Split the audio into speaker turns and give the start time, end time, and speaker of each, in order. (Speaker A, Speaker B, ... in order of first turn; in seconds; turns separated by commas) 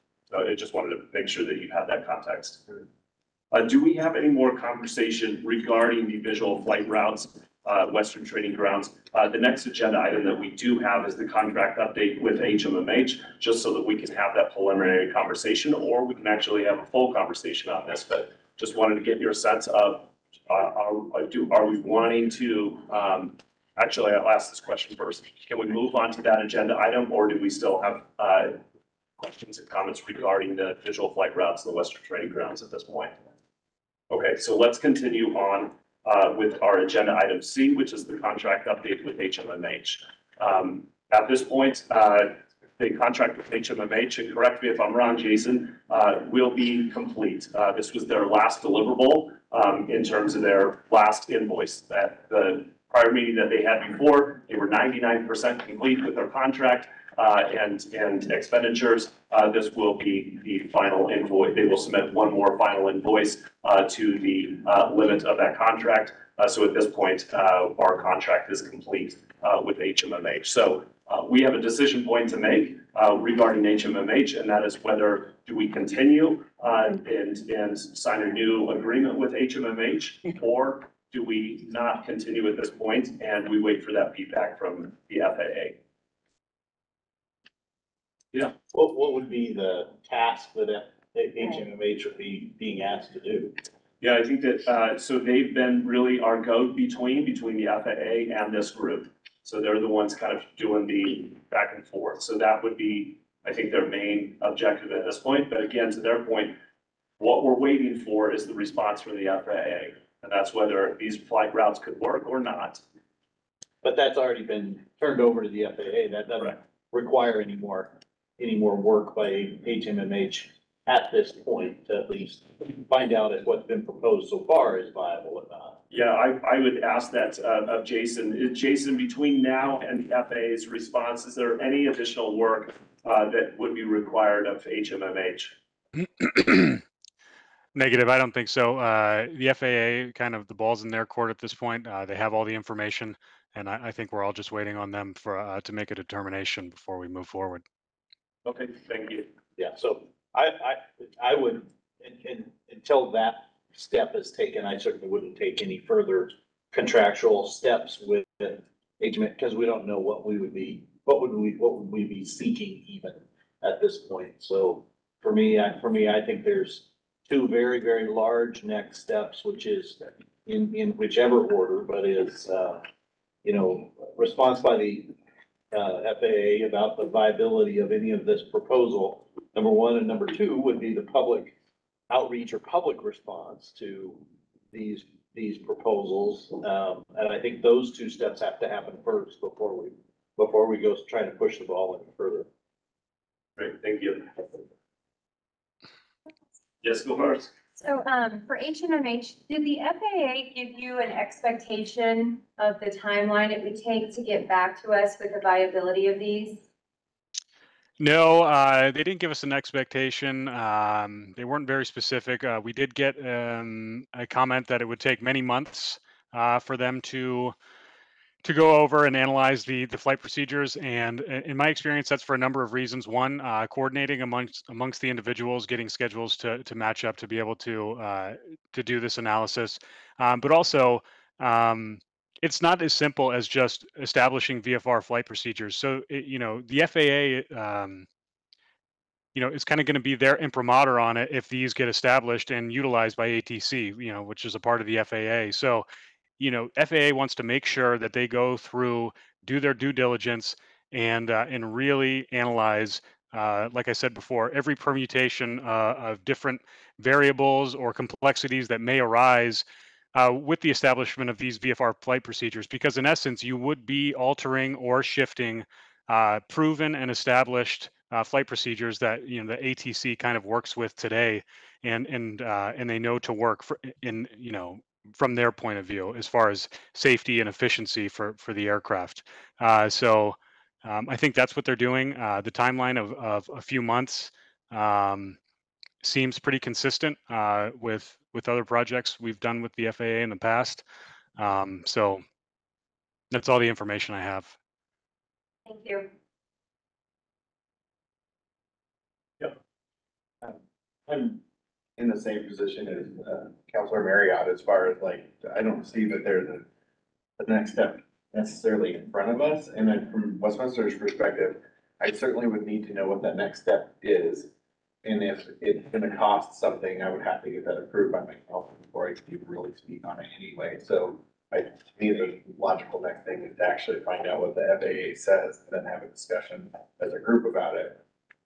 Speaker A: 0.3-2.6, Speaker A: 3.5-28.6, Speaker A: 29.2-33.1, Speaker A: 34.1-85.8, Speaker B: 88.4-93.5, Speaker A: 94.0-106.6, Speaker A: 107.2-112.8, Speaker B: 113.8-125.8, Speaker A: 125.9-135.5, Speaker C: 136.0-136.8, Speaker C: 137.8-147.6, Speaker A: 148.4-149.3, Speaker B: 149.6-172.8, Speaker B: 173.4-175.1, Speaker B: 175.7-181.5, Speaker B: 182.1-184.2, Speaker B: 184.7-192.5, Speaker A: 193.6-194.4, Speaker A: 196.8-197.5, Speaker D: 197.8-206.6, Speaker C: 208.0-217.5, Speaker C: 218.4-238.1, Speaker C: 239.3-245.9, Speaker C: 246.4-259.6, Speaker C: 260.1-285.4, Speaker C: 286.0-290.8, Speaker C: 291.4-292.2, Speaker C: 293.3-294.5, Speaker D: 295.7-296.1, Speaker E: 300.4-301.4, Speaker E: 302.0-306.6, Speaker E: 307.4-314.5, Speaker E: 315.0-328.0